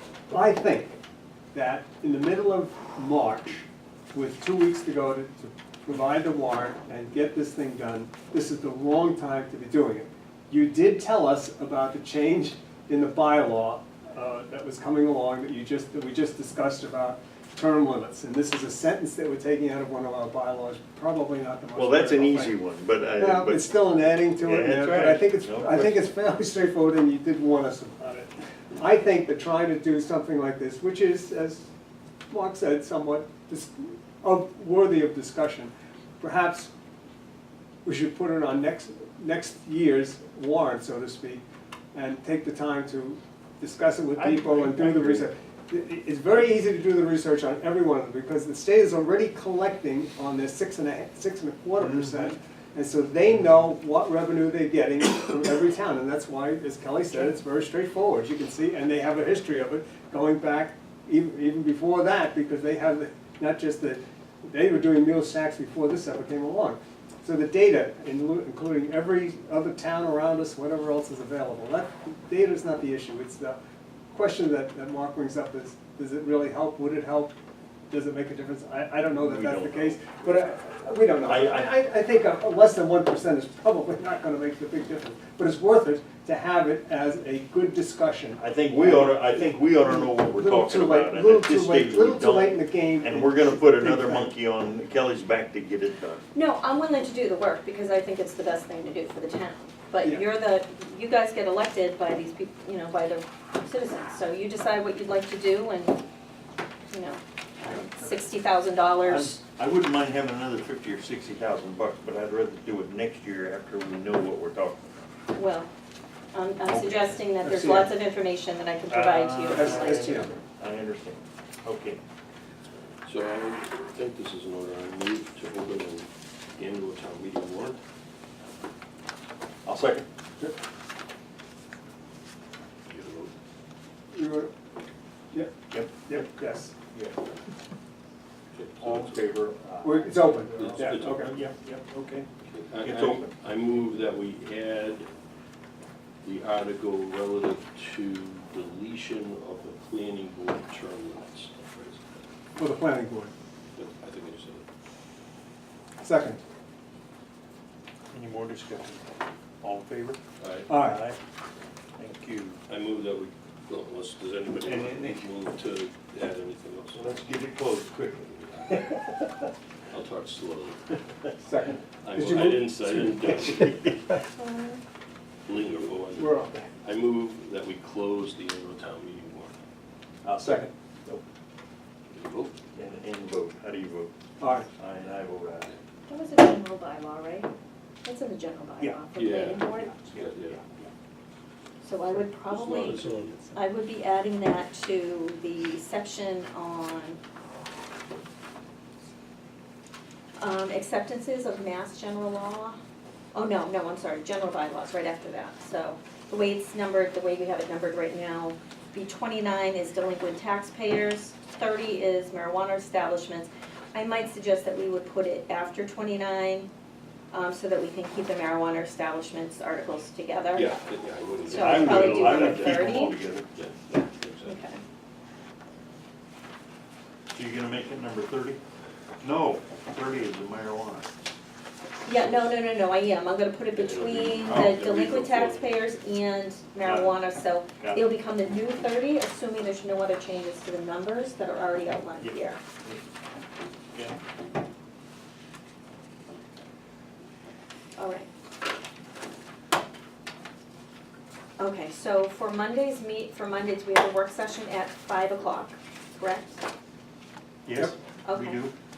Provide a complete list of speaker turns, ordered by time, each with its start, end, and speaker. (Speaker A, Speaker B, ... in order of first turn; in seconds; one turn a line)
Speaker A: 0.3-1.0
Speaker A: 1.5-22.6
Speaker B: 21.8-26.1
Speaker A: 23.2-31.7
Speaker A: 32.3-36.7
Speaker A: 37.9-73.6
Speaker B: 44.2-45.2
Speaker A: 74.1-77.3
Speaker A: 77.9-94.3
Speaker B: 79.2-80.0
Speaker B: 81.2-81.8
Speaker B: 88.4-96.2
Speaker C: 96.3-106.0
Speaker C: 106.9-109.4
Speaker B: 109.0-115.0
Speaker C: 115.3-115.7
Speaker C: 116.3-120.3
Speaker B: 116.7-117.2
Speaker A: 117.4-117.9
Speaker B: 118.9-122.0
Speaker A: 119.5-120.3
Speaker D: 123.0-127.8
Speaker B: 129.7-130.1
Speaker D: 132.9-133.3
Speaker A: 134.1-134.5
Speaker B: 135.7-136.3
Speaker A: 136.1-136.7
Speaker B: 136.9-137.2
Speaker D: 138.6-139.2
Speaker B: 138.8-142.3
Speaker A: 139.8-141.3
Speaker D: 140.6-141.2
Speaker D: 142.6-145.1
Speaker B: 142.8-143.3
Speaker D: 146.2-152.0
Speaker A: 152.6-153.3
Speaker D: 153.8-154.7
Speaker A: 156.0-156.4
Speaker B: 158.1-161.2
Speaker D: 160.4-160.7
Speaker A: 160.7-161.0
Speaker B: 162.0-162.6
Speaker D: 162.7-167.1
Speaker B: 164.6-165.2
Speaker B: 166.9-169.1
Speaker D: 169.9-171.0
Speaker A: 171.4-172.8
Speaker D: 172.0-174.2
Speaker C: 174.4-174.8
Speaker D: 175.4-179.6
Speaker A: 176.2-176.6
Speaker B: 180.2-181.2
Speaker D: 182.1-182.6
Speaker B: 182.7-184.1
Speaker A: 184.4-184.7
Speaker B: 184.7-185.7
Speaker C: 186.1-187.5
Speaker C: 188.0-190.1
Speaker D: 189.2-190.6
Speaker B: 190.0-190.9
Speaker C: 191.8-197.2
Speaker D: 192.4-193.6
Speaker C: 200.4-202.8
Speaker C: 203.3-216.7
Speaker C: 217.3-220.7
Speaker D: 220.6-224.6
Speaker C: 221.5-223.2
Speaker B: 221.5-223.5
Speaker C: 223.9-224.8
Speaker B: 227.3-228.6
Speaker B: 229.2-231.1
Speaker C: 232.1-242.6
Speaker D: 233.7-235.6
Speaker B: 234.5-235.4
Speaker B: 236.8-237.2
Speaker B: 237.8-238.1
Speaker B: 242.2-243.0
Speaker C: 248.0-248.3
Speaker C: 251.6-256.6
Speaker B: 257.7-258.7
Speaker C: 258.2-258.6